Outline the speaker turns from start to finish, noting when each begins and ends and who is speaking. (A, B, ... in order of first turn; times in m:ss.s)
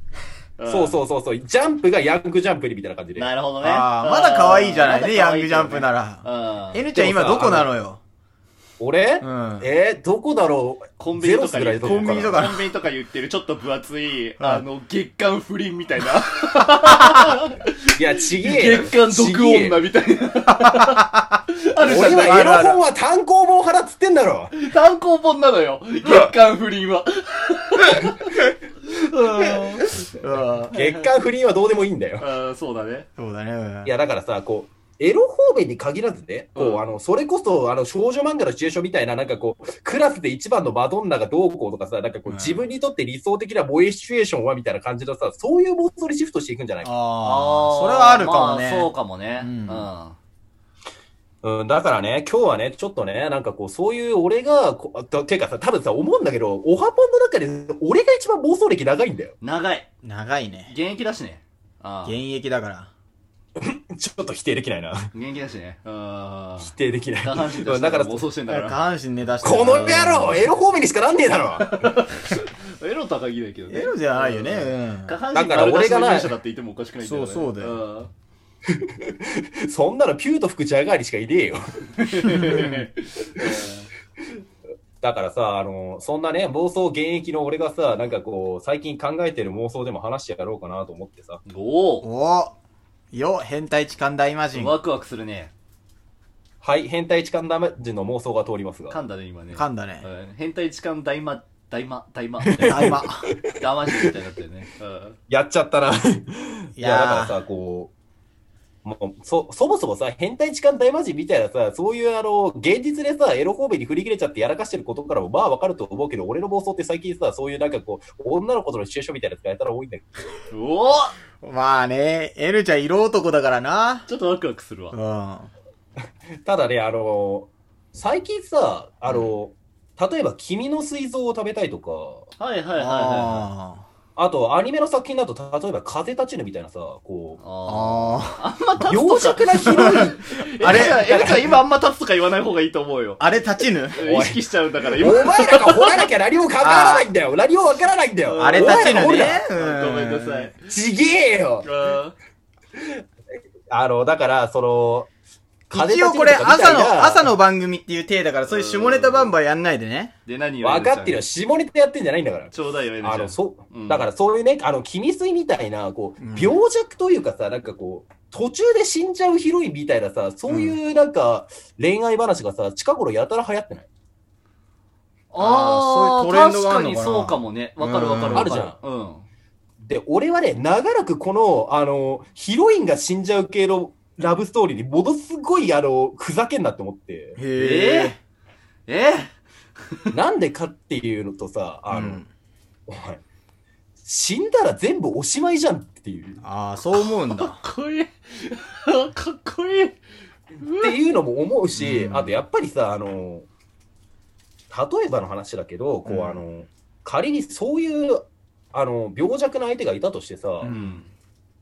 0:00.6-0:01.0 A
0:00.7-0:03.3 B
0:03.1-0:06.8 A
0:03.6-0:08.0 C
0:06.9-0:07.7 B
0:08.8-0:12.4 B
0:09.2-0:09.7 C
0:11.0-0:22.4 A
0:11.8-0:12.7 C
0:14.4-0:14.6 C
0:17.9-0:19.8 B
0:20.5-0:21.4 C
0:21.8-0:24.5 B
0:21.9-0:22.8 C
0:24.5-0:30.0 A
0:30.2-0:30.7 C
0:30.7-0:32.2 B
0:30.7-0:31.0 A
0:32.2-0:33.1 A
0:33.2-0:33.9 C
0:33.8-0:46.9 B
0:36.6-0:36.8 A
0:42.3-0:42.6 C
0:46.8-0:49.9 C
0:47.2-0:50.2 A
0:51.4-0:59.4 B
0:59.4-0:59.9 A
1:00.0-1:00.7 C
1:00.6-1:02.2 A
1:02.0-1:02.9 C
1:03.6-1:05.1 B
1:05.1-1:08.8 A
1:06.6-1:08.2 B
1:08.5-1:10.5 C
1:09.4-1:11.7 B
1:11.6-1:18.1 A
1:13.7-1:15.2 C
1:15.3-1:16.4 B
1:17.0-1:17.8 C
1:18.7-1:22.5 B
1:22.0-1:23.9 A
1:22.4-1:22.8 C
1:25.0-1:31.4 B
1:31.5-1:32.1 A
1:32.0-1:32.5 C
1:33.1-1:34.8 C
1:34.5-1:35.5 A
1:36.6-1:39.0 B
1:38.9-1:43.0 A
1:39.5-1:40.0 C
1:42.6-1:44.1 B
1:42.6-1:43.2 C
1:43.6-1:45.2 A
1:45.3-1:47.9 B
1:46.8-1:47.4 C
1:48.8-2:00.3 B
2:00.5-2:01.1 A
2:01.4-2:04.1 C
2:04.1-2:05.0 A
2:04.9-2:05.5 C
2:06.4-2:12.3 B
2:12.4-2:13.5 A
2:12.8-2:13.8 C
2:14.2-2:17.4 B
2:17.4-2:23.2 A
2:17.7-2:18.4 C
2:18.9-2:21.6 B
2:19.6-2:21.1 C
2:23.2-2:24.0 C
2:23.9-2:25.9 A
2:24.0-2:24.4 B
2:25.0-2:29.4 B
2:26.6-2:27.1 C
2:28.2-2:30.6 A
2:28.3-2:30.5 C
2:30.7-2:31.7 B
2:31.6-2:32.2 A
2:32.8-2:33.0 B
2:33.7-2:35.1 B
2:35.7-2:40.1 C
2:35.7-2:37.3 B
2:38.5-2:39.3 A
2:40.2-2:41.2 A
2:40.6-2:53.9 B
2:42.5-2:44.1 A
2:46.2-2:46.6 C
2:50.5-2:50.8 C
2:55.3-2:59.2 A
2:55.4-2:58.6 C
2:58.3-2:58.8 B
2:59.8-3:07.4 B
3:07.4-3:08.2 C
3:07.5-3:08.1 A
3:08.9-3:09.3 A
3:10.1-3:12.2 B
3:11.9-3:12.3 C
3:12.9-3:13.2 B
3:14.0-3:16.4 B
3:16.4-3:17.6 C
3:16.9-3:20.0 A
3:20.6-3:20.9 A
3:20.8-3:23.5 B
3:21.7-3:22.4 C
3:24.7-3:30.7 B
3:26.0-3:26.4 C
3:30.6-3:31.0 C
3:30.6-3:31.1 A